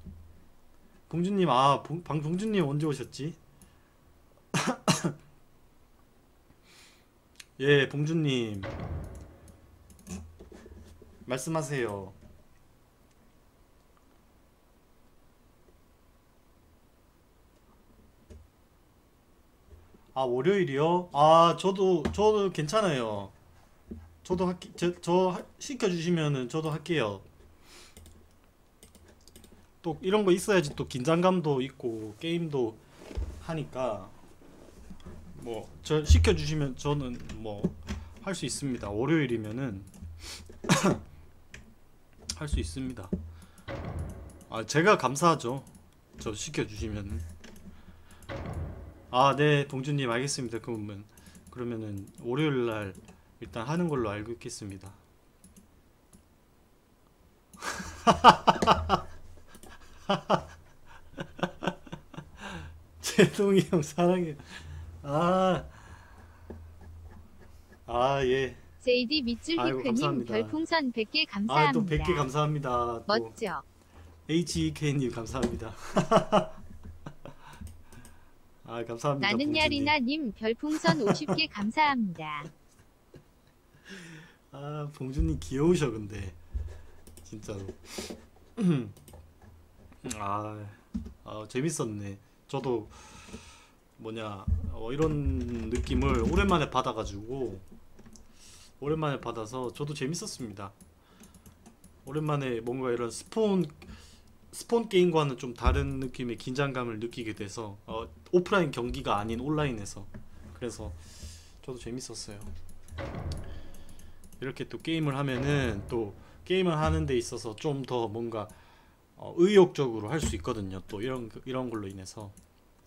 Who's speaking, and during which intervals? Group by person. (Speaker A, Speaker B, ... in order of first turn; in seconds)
Speaker A: 1.1-3.4, 4.5-5.2, 7.6-8.8, 11.3-12.2, 20.1-23.3, 24.2-27.3, 29.8-32.8, 33.4-34.2, 35.3-39.9, 40.7-41.0, 42.4-43.1, 44.5-45.7, 46.2-47.2, 49.1-55.0, 57.6-59.0, 60.1-60.5, 61.4-61.7, 63.0-65.7, 67.9-68.6, 69.6-70.6, 71.5-73.3, 74.3-76.6, 78.7-80.0, 80.8-81.3, 83.9-86.4, 87.2-89.0, 90.0-93.3, 94.0-97.6, 98.8-100.8, 102.0-103.9, 104.5-111.0, 111.6-112.5, 114.4-118.5, 119.2-122.3
Speaker B: 68.8-72.2, 73.1-73.6, 79.2-82.5